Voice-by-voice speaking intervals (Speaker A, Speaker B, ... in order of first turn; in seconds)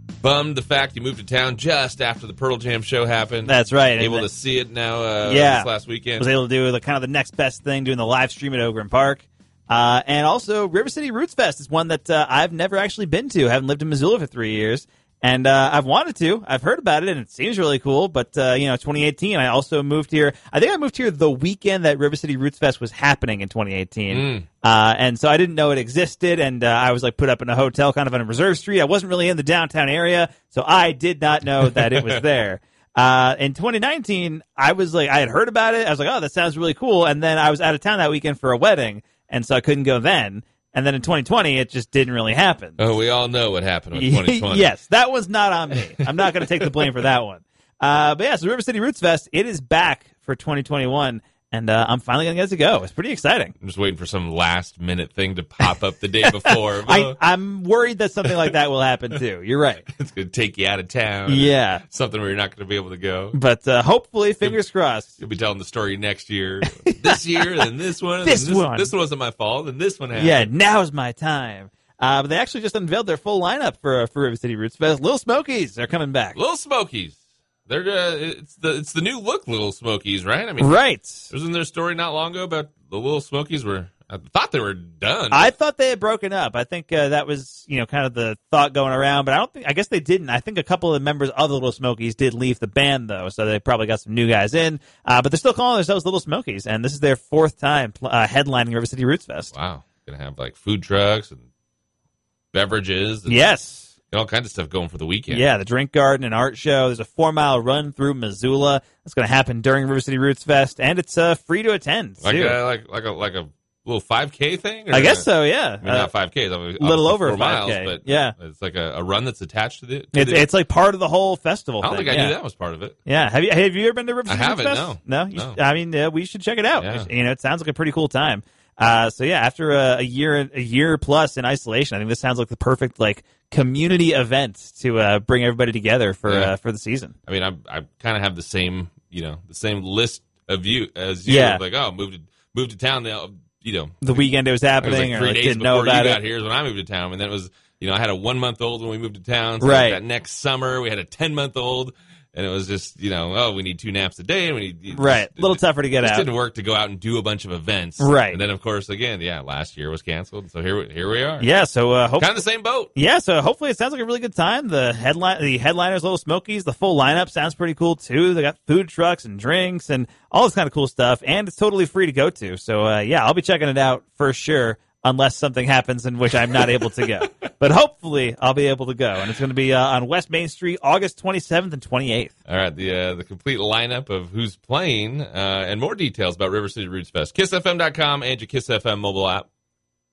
Speaker A: 0.2-6.3, 24.1-24.4, 31.9-32.2, 42.8-44.7, 46.0-46.9, 53.6-57.2, 60.0-63.4, 65.2-70.5, 76.3-85.5, 99.5-101.4, 102.5-103.4, 104.1-105.4, 112.2-115.3, 115.8-120.5, 121.8-123.0, 124.3-125.6, 126.8-127.1, 136.3-136.5, 137.3-144.2, 144.8-161.5, 162.2-162.9, 182.5-189.5
Speaker B: 3.4-4.3, 5.2-42.8, 43.9-53.5, 56.4-59.8, 61.3-61.8, 63.3-65.1, 66.8-67.6, 68.2-68.9, 70.1-76.4, 80.6-81.3, 85.3-99.5, 103.3-103.9, 105.3-112.6, 114.9-116.1, 116.8-118.3, 120.1-122.3, 123.0-137.1, 141.2-141.6, 144.0-146.2, 149.6-150.0, 154.9-156.2, 158.0-158.4, 161.4-162.3, 162.9-182.3